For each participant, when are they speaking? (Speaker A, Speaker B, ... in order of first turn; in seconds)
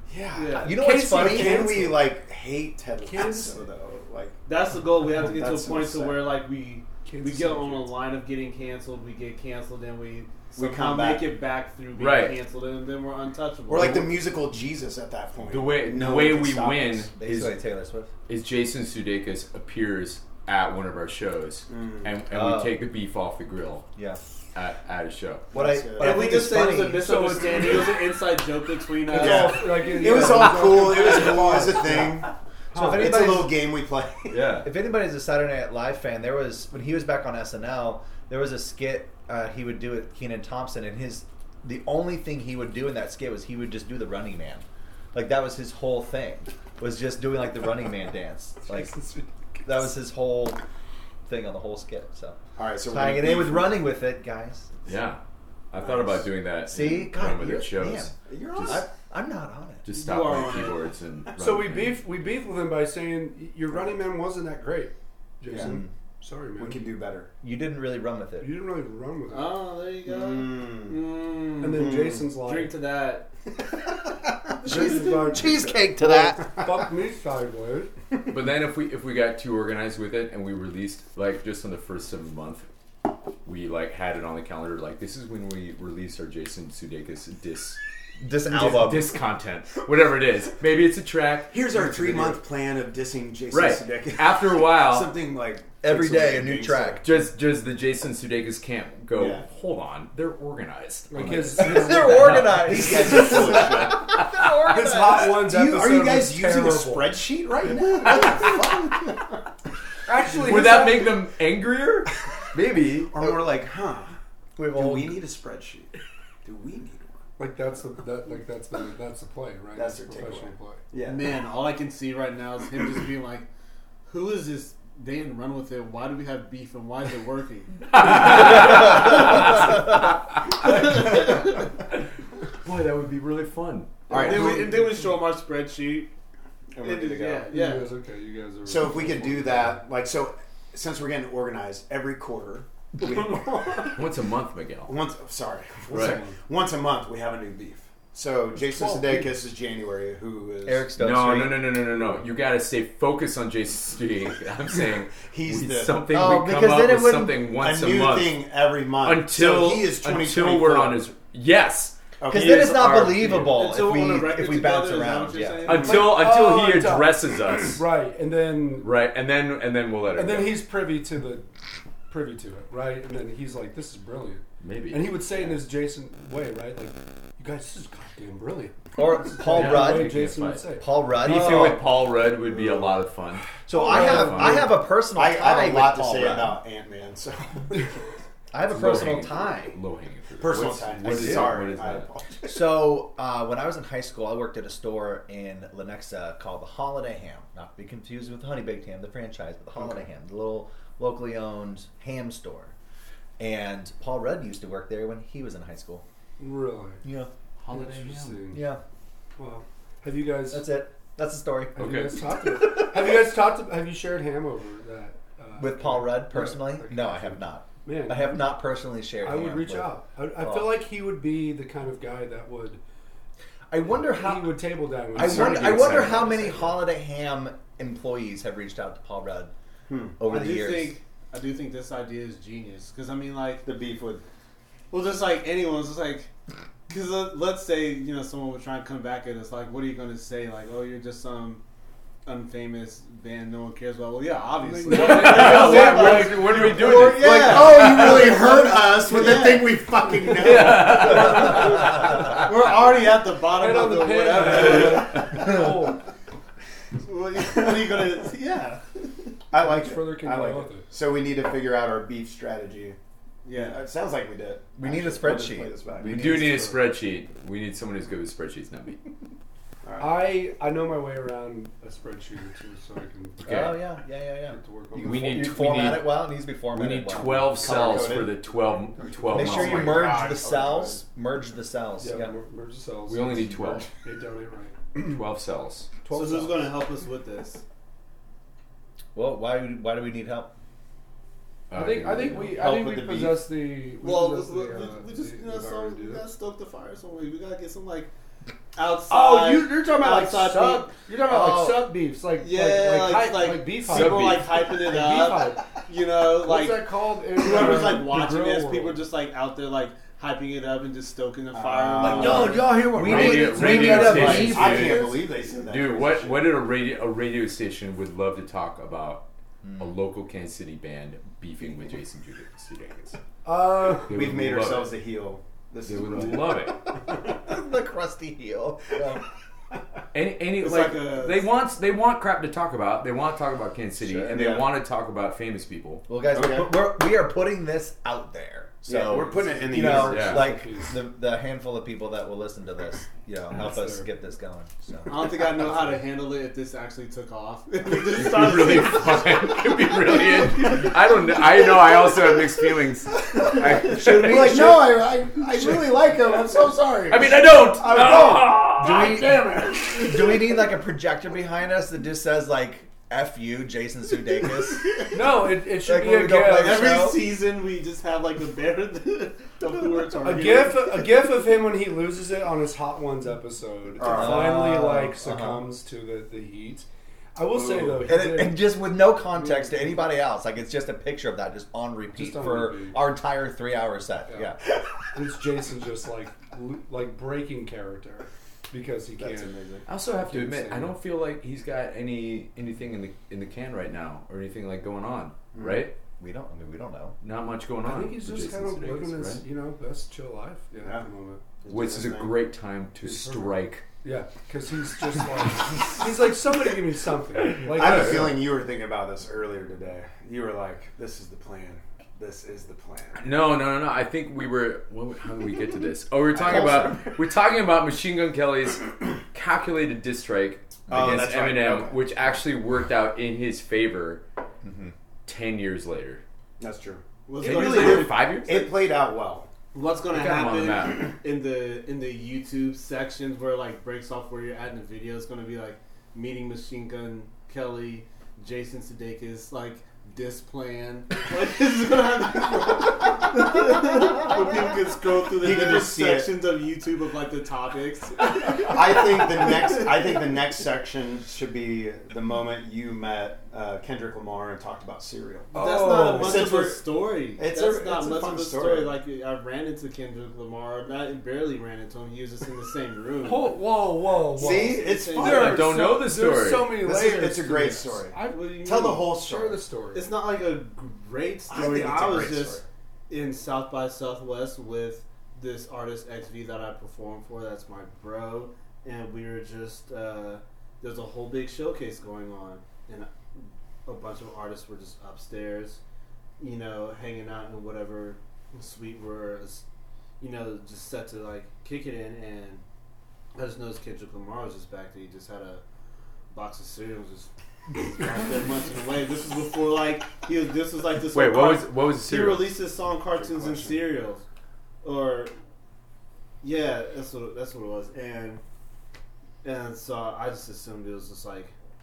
Speaker A: 0.1-4.4, 5.1-6.2, 10.6-11.3, 13.7-17.1, 21.7-22.1, 25.5-26.4, 29.1-32.3, 32.8-34.6, 52.6-53.8, 55.8-56.2, 58.2-58.9, 65.5-65.8, 66.6-67.3, 70.1-71.0, 71.6-72.2, 91.5-97.1, 99.2-99.5, 102.4-104.1, 105.2-109.3, 113.1-114.2, 114.7-115.9, 116.5-117.2, 119.7-121.3, 134.1-134.8, 136.7-137.5, 138.7-144.0, 144.9-150.9, 155.2-156.0, 157.6-161.1, 162.2-163.4, 182.5-183.0, 185.1-187.9, 190.4-192.8, 225.2-226.2, 229.9-230.2, 233.7-234.2, 246.7-251.4, 259.5-263.0, 263.5-266.4, 269.8-270.3, 277.6-278.4, 279.6-281.0, 292.6-293.4, 311.5-316.5, 324.1-326.7, 334.3-334.6, 336.3-336.7, 338.8-340.4, 353.9-359.4, 374.0-374.6, 377.5-378.0, 389.2-389.9, 395.5-395.9, 401.6-402.4, 407.7-413.3, 416.4-417.1, 420.9-422.0, 426.6-429.5, 445.4-446.3, 448.6-456.9, 457.4-458.9, 464.3-465.6, 466.8-469.6, 471.5-472.6, 503.1-503.9
Speaker B: 0.3-0.8, 4.5-14.1, 26.0-29.7, 59.9-60.9, 69.3-73.3, 121.0-123.5, 124.1-129.6, 130.7-131.3, 134.1-136.1, 136.8-137.9, 163.5-166.1, 230.3-233.7, 234.9-236.3, 236.9-241.6, 242.2-249.7, 251.3-255.4, 257.0-259.0, 263.4-263.8, 266.1-266.8, 279.4-281.0, 286.1-287.6, 294.0-298.1, 298.8-301.0, 302.4-312.6, 314.4-314.8, 330.6-331.5, 345.1-350.9, 366.5-371.1, 427.3-428.2, 429.7-449.0, 455.6-463.6, 464.4-465.6, 468.2-469.0, 469.9-485.8, 486.4-489.6, 490.2-492.6, 493.4-495.6, 496.3-504.2, 504.8-505.3, 506.4-508.4, 509.4-511.5
Speaker C: 0.6-2.0, 17.2-18.1, 22.3-22.8, 24.0-24.2, 25.5-27.2, 29.2-29.5, 31.7-32.1, 32.7-33.5, 34.6-49.0, 49.6-50.6, 51.3-54.7, 56.7-59.9, 65.6-65.9, 67.4-68.6, 74.6-76.7, 88.2-89.1, 95.8-97.1, 101.6-105.4, 114.6-115.2, 150.7-151.8, 156.1-157.4, 162.3-165.8, 179.0-180.2, 180.8-181.8, 183.7-186.6, 188.5-189.8, 191.1-191.5, 192.4-202.7, 203.4-206.0, 207.0-207.3, 208.5-208.8, 210.5-211.8, 215.6-220.8, 223.7-229.5, 230.2-230.9, 264.8-266.6, 273.4-278.1, 279.3-282.3, 289.1-290.5, 301.2-301.9, 312.0-315.1, 327.2-329.2, 334.1-334.5, 336.1-345.7, 353.9-355.0, 358.1-365.0, 365.8-367.2, 374.0-375.7, 378.0-384.6, 396.2-397.1, 424.6-424.9
Speaker D: 0.7-2.0, 3.0-3.7, 7.0-7.9, 26.9-28.1, 29.1-33.5, 48.6-49.9, 61.4-67.0, 68.4-69.6, 71.6-72.8, 74.6-77.9, 101.1-103.9, 104.6-107.2, 110.1-111.2, 117.4-120.9, 134.5-135.1, 137.5-139.8, 146.0-146.3, 148.7-149.3, 165.7-169.0, 170.1-171.5, 172.1-181.9, 183.7-184.7, 206.4-207.1, 207.7-208.7, 209.4-210.7, 211.8-218.5, 219.2-222.8, 224.0-226.8, 244.6-246.7, 250.9-252.7, 253.4-256.1, 259.5-260.9, 270.0-273.8, 274.5-275.7, 279.0-279.4, 282.0-285.2, 286.0-286.7, 291.7-296.2, 299.1-309.0, 312.2-314.8, 323.4-324.2, 339.1-341.0, 343.5-344.1, 365.1-367.0, 370.2-378.7, 382.1-383.0, 385.1-389.5, 390.2-391.0, 397.8-401.4, 403.0-408.4, 455.5-456.6, 463.2-470.1
Speaker E: 12.0-12.4, 15.5-17.6, 18.3-23.9, 24.5-25.5, 30.2-31.1, 34.3-34.7, 54.9-58.8, 59.8-62.0, 78.3-82.7, 83.4-87.8, 88.4-92.4, 93.5-95.1, 97.0-102.6, 110.3-113.1, 127.9-129.9, 130.6-131.4, 132.6-134.6, 143.8-144.9, 145.9-146.2, 151.0-158.4, 159.0-163.2, 165.7-167.8, 168.8-170.6, 174.6-175.2, 179.5-184.7, 188.7-192.1, 207.6-208.5, 211.8-212.2, 225.5-226.0, 244.9-248.4, 250.3-252.1, 266.0-269.1, 273.4-273.8, 275.0-280.2, 283.1-283.9, 285.0-285.9, 291.7-292.6, 303.9-304.6, 312.3-323.2, 323.9-324.9, 325.9-326.8, 330.1-336.0, 339.9-340.5, 347.9-354.8, 357.1-359.2, 389.9-396.0, 397.2-399.4, 401.7-403.9, 407.7-408.4, 413.2-424.2, 425.3-426.2, 427.4-428.7, 430.1-431.1, 465.2-466.8, 501.1-502.6